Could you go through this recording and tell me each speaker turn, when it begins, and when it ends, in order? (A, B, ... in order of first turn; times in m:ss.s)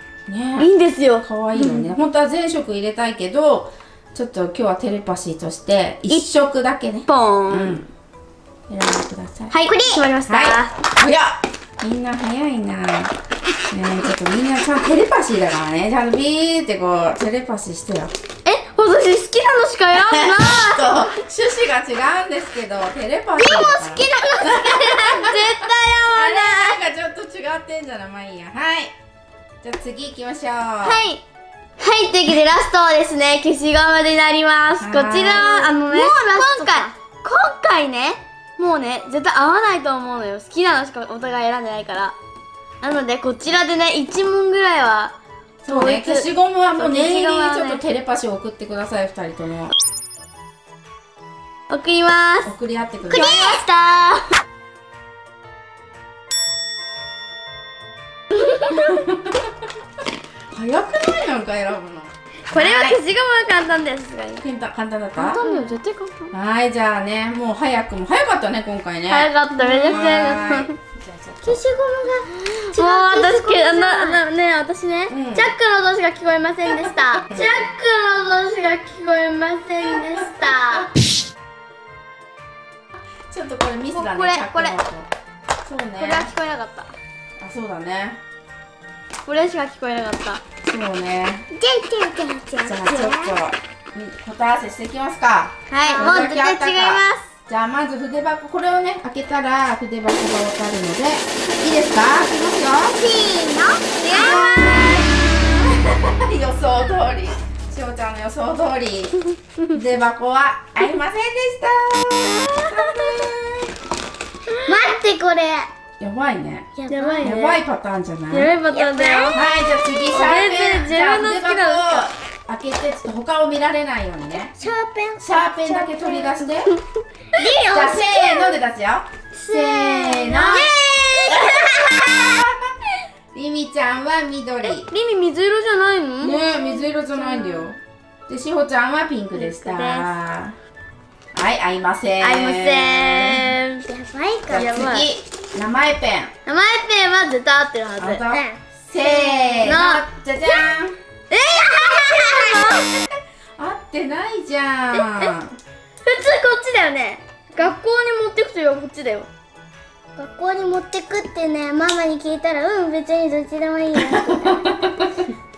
0:00.3-0:07.9 A
0:00.6-0:01.9 B
0:07.1-0:07.8 B
0:08.7-0:09.5 A
0:09.5-0:10.7 B
0:09.7-0:10.0 C
0:10.3-0:13.1 A
0:13.7-0:18.1 A
0:18.4-0:20.9 B
0:20.0-0:25.5 A
0:23.4-0:26.8 B
0:26.1-0:28.9 A
0:29.6-0:31.0 A
0:30.8-0:31.2 B
0:31.8-0:42.2 B
0:34.8-0:35.6 A
0:35.4-0:36.9 C
0:42.8-0:45.1 B
0:45.6-0:49.7 A
0:45.7-0:47.8 B
0:51.7-0:52.5 B
0:52.4-0:53.3 A
0:53.1-0:53.6 C
0:53.1-0:54.4 B
0:58.6-0:59.4 A
1:00.5-1:03.0 A
1:02.5-1:04.4 B
1:04.4-1:05.4 A
1:05.2-1:06.3 B
1:05.3-1:05.7 C
1:06.3-1:11.6 A
1:09.1-1:10.7 B
1:09.6-1:10.0 C
1:11.4-1:14.2 C
1:12.8-1:20.9 B
1:15.1-1:15.5 A
1:17.3-1:17.5 A
1:23.3-1:25.1 A
1:23.9-1:24.8 B
1:25.6-1:26.3 A
1:26.0-1:26.9 B
1:27.4-1:28.2 A
1:29.2-1:30.4 B
1:30.6-1:31.4 A
1:31.5-1:33.4 C
1:32.6-1:43.0 A
1:35.7-1:37.3 B
1:35.8-1:36.2 C
1:42.9-1:44.7 C
1:44.0-1:44.9 B
1:44.1-1:49.2 A
1:49.7-1:53.7 A
1:52.4-1:53.3 B
1:54.6-1:55.7 C
1:56.0-1:58.5 A
1:56.8-1:57.4 C
1:56.9-1:57.6 B
1:58.3-1:59.4 B
1:58.6-1:59.4 C
1:59.3-2:04.6 A
2:00.1-2:02.1 B
2:04.6-2:06.4 C
2:05.2-2:06.7 A
2:07.3-2:08.6 C
2:07.7-2:12.7 A
2:09.4-2:12.2 C
2:13.3-2:14.9 A
2:14.7-2:16.4 B
2:16.2-2:17.8 A
2:17.3-2:17.6 B
2:18.3-2:20.6 A
2:19.3-2:20.1 B
2:21.3-2:23.6 A
2:22.2-2:23.8 B
2:23.8-2:24.7 C
2:24.5-2:26.3 A
2:24.5-2:25.1 B
2:26.4-2:28.2 B
2:28.0-2:31.0 A
2:28.3-2:28.6 C
2:29.6-2:30.0 B
2:31.3-2:32.9 B
2:31.7-2:32.8 C
2:33.6-2:35.6 A
2:34.9-2:35.4 B
2:36.0-2:39.3 B
2:40.2-2:44.7 C
2:44.0-2:45.2 A